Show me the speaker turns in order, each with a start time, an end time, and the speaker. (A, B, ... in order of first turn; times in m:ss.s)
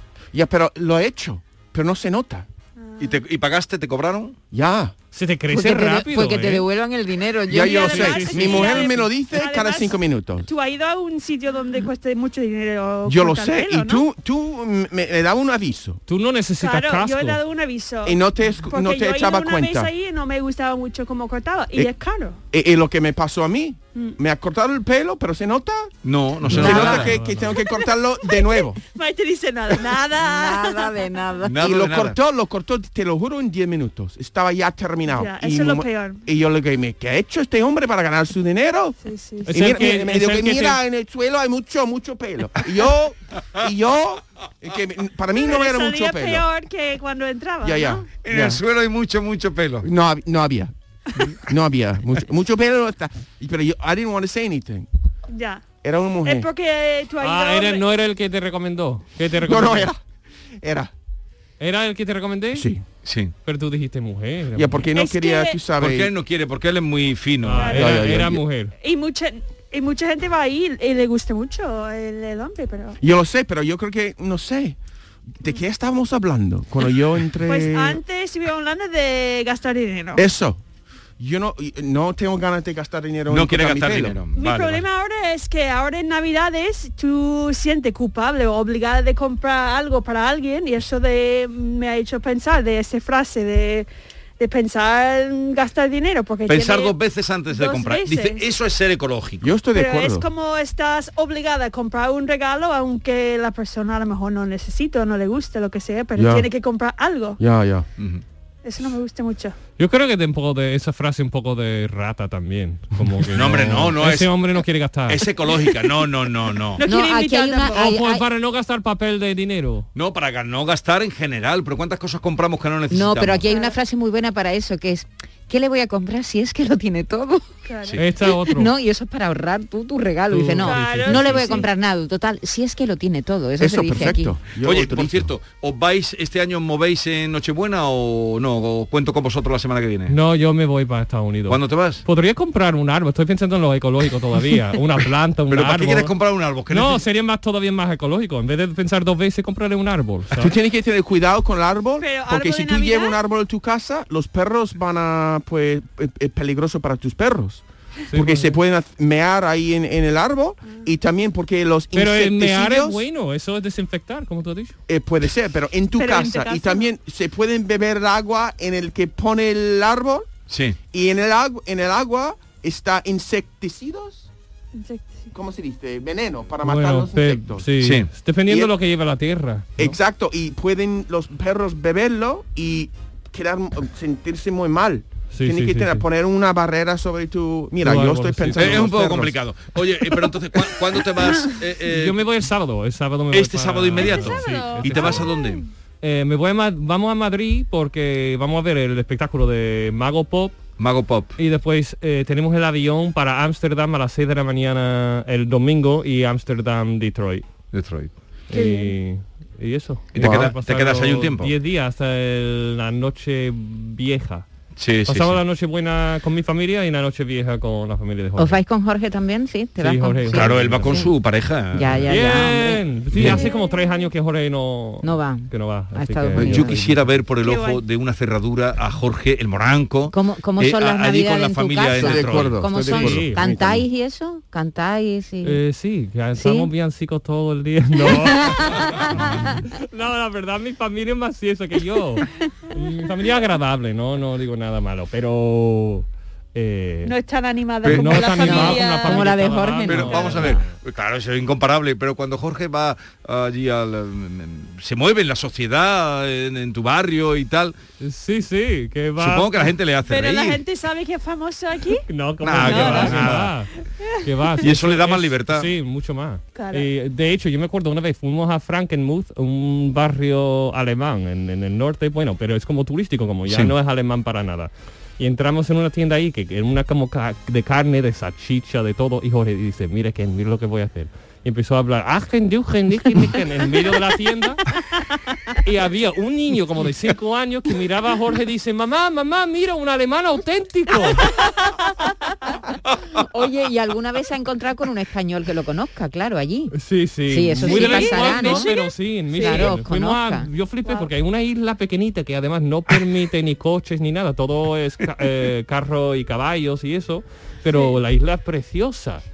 0:00.3-0:02.5 A
0:02.8-0:03.2 B
0:03.0-0:04.4 C
0:04.5-0:04.9 A
0:05.1-0:06.6 D
0:05.5-0:08.6 E
0:07.5-0:10.5 A
0:07.5-0:14.0 B
0:08.0-0:08.8 D
0:13.0-0:16.0 A
0:16.1-0:17.4 D
0:16.6-0:22.4 B
0:18.0-0:19.9 A
0:22.5-0:28.8 A
0:26.0-0:27.1 C
0:26.5-0:27.6 D
0:26.6-0:27.0 B
0:27.7-0:31.0 B
0:30.2-0:31.6 E
0:31.4-0:32.2 C
0:31.5-0:39.0 A
0:35.1-0:36.2 B
0:39.0-0:39.8 B
0:39.5-0:40.8 D
0:39.5-0:46.4 A
0:45.4-0:48.1 B
0:47.6-0:48.6 A
0:48.2-0:49.9 C
0:49.8-0:50.7 A
0:51.5-0:54.9 A
0:55.3-0:55.6 B
0:55.8-0:56.5 A
0:56.2-0:57.8 B
0:57.2-0:59.9 D
0:59.4-1:00.0 A
1:00.6-1:00.9 A
1:01.6-1:02.7 D
1:02.5-1:02.8 A
1:03.0-1:03.3 C
1:03.4-1:04.8 D
1:04.5-1:06.1 A
1:04.9-1:05.6 B
1:05.8-1:07.8 C
1:07.4-1:08.7 D
1:07.6-1:07.9 B
1:07.7-1:08.4 A
1:08.8-1:13.0 B
1:13.0-1:14.8 A
1:15.4-1:18.0 A
1:17.4-1:20.3 B
1:20.1-1:20.6 A
1:21.2-1:24.2 A
1:23.3-1:24.8 C
1:24.3-1:33.9 B
1:34.4-1:36.9 B
1:36.5-1:39.5 C
1:37.5-1:38.5 B
1:39.4-1:40.2 A
1:39.7-1:47.4 B
1:46.2-1:46.5 A
1:47.4-1:47.9 A
1:48.6-1:49.6 B
1:49.8-1:55.2 D
1:53.3-1:54.3 C
1:55.1-1:56.8 C
1:56.8-1:57.8 B
1:56.8-1:58.2 E
1:57.7-1:59.9 D
1:59.9-2:03.5 C
2:02.9-2:07.5 E
2:03.5-2:03.8 B
2:07.6-2:08.0 B
2:08.0-2:08.7 D
2:08.3-2:14.4 E
2:10.3-2:11.7 D
2:10.6-2:11.7 B
2:13.6-2:15.3 A
2:14.6-2:20.1 C
2:20.1-2:26.1 D
2:21.5-2:22.0 C
2:25.5-2:27.0 C
2:26.7-2:30.5 D
2:30.4-2:43.0 A
2:32.0-2:33.2 B
2:38.1-2:38.6 D
2:41.9-2:44.8 D
2:44.9-2:50.3 A
2:46.0-2:46.9 B
2:50.5-2:50.8 C
2:50.9-2:54.3 A
2:54.7-2:55.3 B
2:55.3-2:57.7 A
2:56.6-3:00.0 D
2:57.8-2:58.1 C
2:58.5-2:58.7 A
2:59.8-3:09.4 A
3:05.3-3:06.0 D
3:07.8-3:08.9 D
3:08.6-3:12.2 C
3:11.9-3:15.3 D
3:13.3-3:15.6 C
3:14.0-3:15.6 B
3:16.0-3:20.6 D
3:20.8-3:21.3 C
3:21.4-3:27.4 D
3:27.7-3:28.1 C
3:28.5-3:34.4 D
3:28.5-3:28.9 B
3:30.1-3:31.5 C
3:30.2-3:30.5 A
3:34.8-3:35.4 C
3:35.0-3:38.6 D
3:38.4-3:41.1 E
3:39.8-3:41.0 D
3:40.3-3:42.2 C
3:41.7-3:43.3 E
3:42.0-3:47.2 D
3:43.1-3:43.4 C
3:43.2-3:44.1 B
3:45.0-3:46.8 E
3:46.3-3:53.1 C
3:47.4-3:47.8 B
3:50.1-3:55.6 E
3:51.9-3:53.8 A
3:52.8-3:53.4 D
3:55.4-4:07.1 D
3:56.4-3:56.7 E
3:58.0-3:59.1 E
4:07.0-4:09.3 B
4:07.8-4:10.7 D
4:07.8-4:08.1 C
4:08.1-4:10.5 E
4:09.8-4:17.7 C
4:10.1-4:10.5 B
4:18.0-4:19.7 D
4:19.2-4:20.6 C
4:20.1-4:22.0 B
4:22.1-4:44.7 D
4:22.4-4:23.5 C
4:22.6-4:23.3 B
4:24.6-4:25.7 C
4:26.5-4:26.9 B
4:33.5-4:33.7 C
4:45.6-4:51.3 D
4:53.2-4:56.7 E
4:56.7-5:09.2 D
4:57.3-4:58.7 E
4:57.6-4:59.8 B
4:59.3-5:00.5 E
5:07.7-5:08.0 B